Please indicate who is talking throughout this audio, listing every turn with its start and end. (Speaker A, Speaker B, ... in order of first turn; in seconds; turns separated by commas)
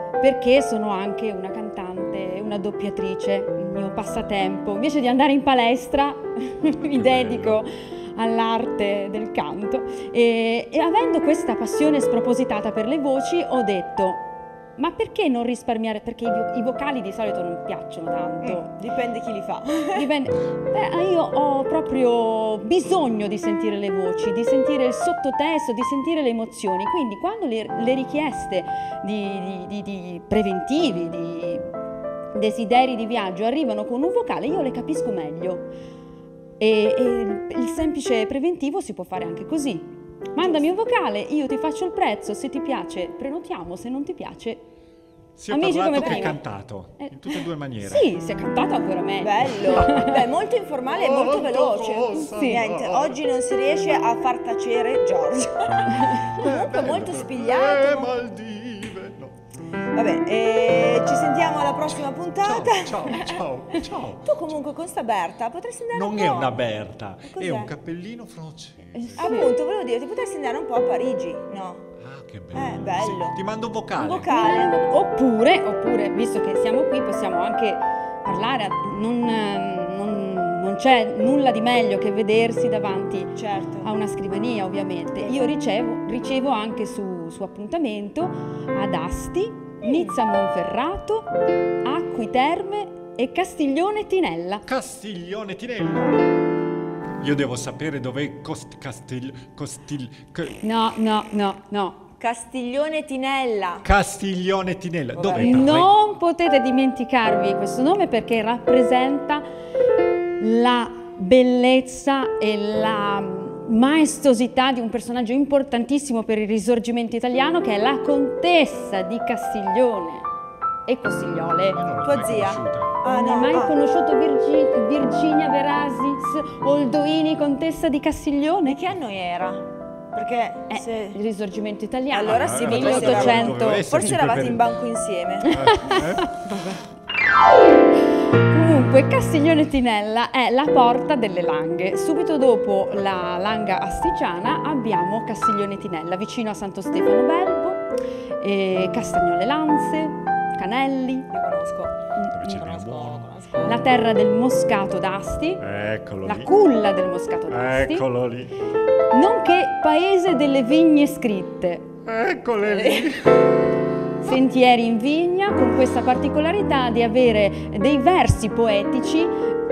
Speaker A: 0.2-18.7, Speaker B: 6.8-7.6, Speaker C: 18.4-20.1, Speaker A: 19.9-31.7, Speaker A: 32.3-35.7, Speaker A: 36.6-44.6, Speaker C: 40.4-40.7, Speaker B: 45.4-48.1, Speaker A: 45.5-46.4, Speaker C: 45.9-46.4, Speaker A: 47.0-50.2, Speaker C: 49.2-58.1, Speaker B: 50.9-53.2, Speaker A: 52.1-52.6, Speaker B: 56.2-59.3, Speaker C: 60.0-63.4, Speaker B: 62.4-64.5, Speaker C: 64.2-66.6, Speaker B: 65.9-69.2, Speaker C: 67.2-67.7, Speaker A: 68.9-69.5, Speaker C: 69.2-71.9, Speaker B: 72.0-74.3, Speaker C: 72.5-73.4, Speaker C: 74.0-74.8, Speaker A: 74.3-91.3, Speaker C: 83.4-83.9, Speaker C: 89.8-90.1, Speaker A: 91.8-94.7, Speaker B: 94.7-96.3, Speaker B: 97.2-100.6, Speaker A: 100.6-102.0, Speaker C: 102.2-103.8, Speaker B: 103.8-105.9, Speaker C: 105.2-105.8, Speaker A: 105.3-109.5, Speaker A: 110.4-120.3, Speaker A: 120.9-121.8, Speaker B: 121.8-122.9, Speaker C: 122.0-123.8, Speaker A: 123.1-128.8, Speaker C: 128.7-131.2, Speaker A: 130.7-133.9, Speaker C: 132.1-135.6, Speaker B: 132.3-134.6, Speaker B: 135.5-136.3, Speaker A: 135.5-136.3, Speaker C: 136.3-136.8, Speaker A: 138.5-147.8, Speaker A: 148.4-151.3, Speaker C: 151.3-153.8, Speaker B: 152.3-153.3, Speaker A: 153.6-155.6, Speaker B: 155.6-156.5, Speaker A: 156.2-158.1, Speaker B: 157.5-158.5, Speaker A: 159.1-161.9, Speaker B: 162.1-163.5, Speaker C: 162.7-163.1, Speaker A: 164.2-169.4